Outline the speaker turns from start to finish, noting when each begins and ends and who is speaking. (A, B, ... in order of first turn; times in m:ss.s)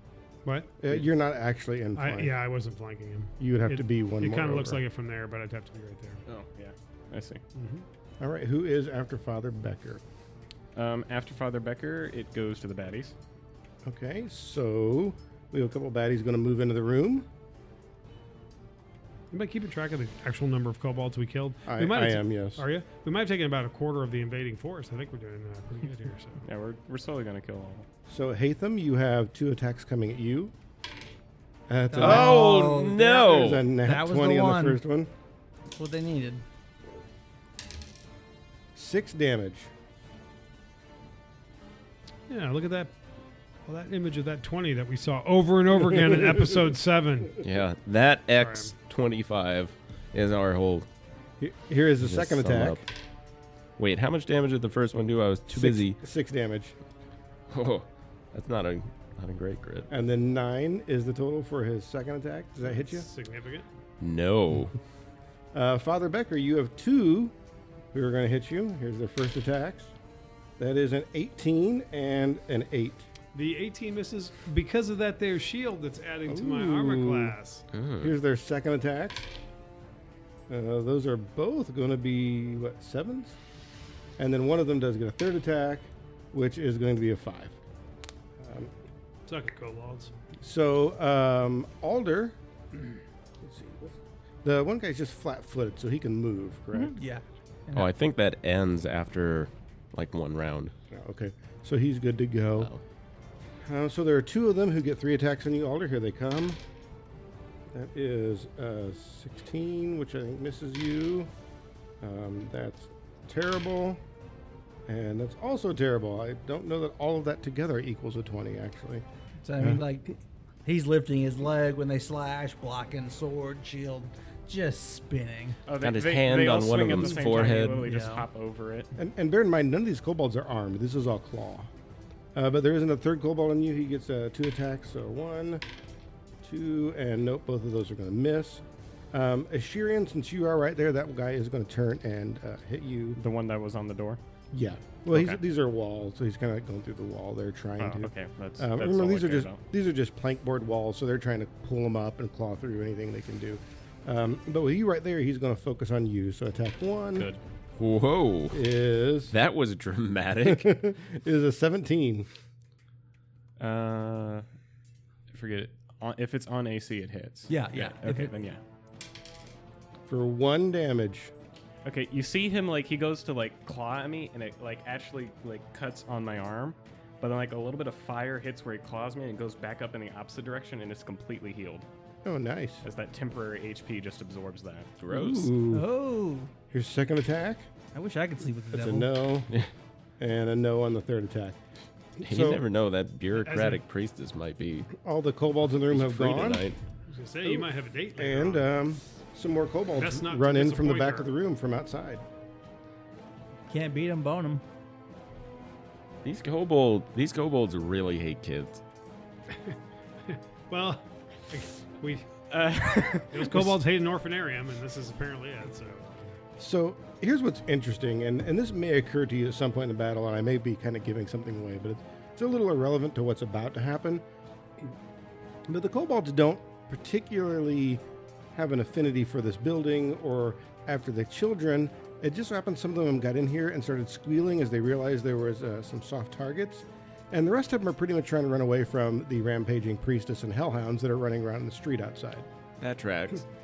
0:00.4-0:00.7 A
0:00.8-0:02.3 B
0:02.0-0:06.2 A
0:03.4-0:04.8 B
0:06.3-0:07.4 C
0:07.5-0:07.8 A
0:08.2-0:10.0 B
0:10.7-0:13.1 C
0:13.8-0:17.3 B
0:19.3-0:26.4 A
0:21.6-0:22.6 B
0:26.4-0:27.9 C
0:28.1-0:30.5 B
0:31.7-0:35.1 B
0:31.9-0:34.8 D
0:32.0-0:33.6 E
0:35.8-0:36.4 D
0:38.7-0:39.7 B
0:42.3-0:42.9 A
0:43.6-0:47.4 A
0:45.9-0:46.5 B
0:47.4-0:50.9 E
0:48.4-0:48.7 A
0:51.4-0:52.8 B
0:52.0-0:52.8 E
0:53.8-0:56.0 E
0:55.5-0:56.7 B
0:57.5-0:59.9 E
0:59.9-1:03.1 B
1:02.6-1:03.7 A
1:04.0-1:04.7 E
1:05.5-1:07.3 B
1:07.9-1:09.9 B
1:10.6-1:13.1 B
1:13.3-1:17.6 A
1:16.3-1:17.4 B
1:17.7-1:18.1 E
1:18.0-1:19.3 B
1:20.5-1:23.4 B
1:24.2-1:27.6 B
1:28.4-1:28.7 B
1:29.3-1:30.1 A
1:30.4-1:32.4 B
1:33.4-1:37.0 B
1:36.7-1:37.9 D
1:37.7-1:40.7 E
1:40.9-1:42.7 B
1:42.6-1:42.8 E
1:43.6-1:46.6 B
1:47.7-1:51.3 B
1:52.0-1:54.0 B
1:54.9-1:59.0 B
1:59.4-2:05.6 D
2:05.6-2:08.9 C
2:05.8-2:07.9 E
2:07.0-2:08.2 D
2:09.0-2:11.7 B
2:12.3-2:15.6 B
2:16.4-2:23.2 B
2:23.2-2:24.2 C
2:24.5-2:37.3 B
2:25.1-2:25.4 C
2:27.8-2:29.6 C
2:37.1-2:37.4 C
2:37.8-2:38.6 E
2:38.5-2:39.3 B
2:39.3-2:40.8 E
2:40.4-2:42.3 B
2:43.6-2:44.4 C
2:45.3-2:48.6 C
2:47.5-2:48.3 D
2:50.1-2:51.3 B
2:51.8-3:01.9 C
3:02.2-3:02.8 B
3:02.8-3:04.9 C
3:05.0-3:05.5 E
3:05.1-3:05.8 B
3:05.7-3:06.5 D
3:06.7-3:07.7 B
3:07.9-3:09.1 D
3:08.7-3:09.5 B
3:10.2-3:11.6 B
3:12.2-3:12.6 B
3:12.2-3:14.9 E
3:13.4-3:13.8 A
3:14.9-3:16.7 B
3:15.9-3:16.8 E
3:17.1-3:18.7 A
3:17.4-3:22.2 B
3:19.9-3:21.3 A
3:23.7-3:24.6 D
3:26.2-3:28.8 E
3:30.3-3:32.3 A
3:32.5-3:33.6 C
3:33.1-3:36.3 A
3:36.6-3:44.2 B
3:45.7-4:02.5 B
4:02.8-4:03.4 E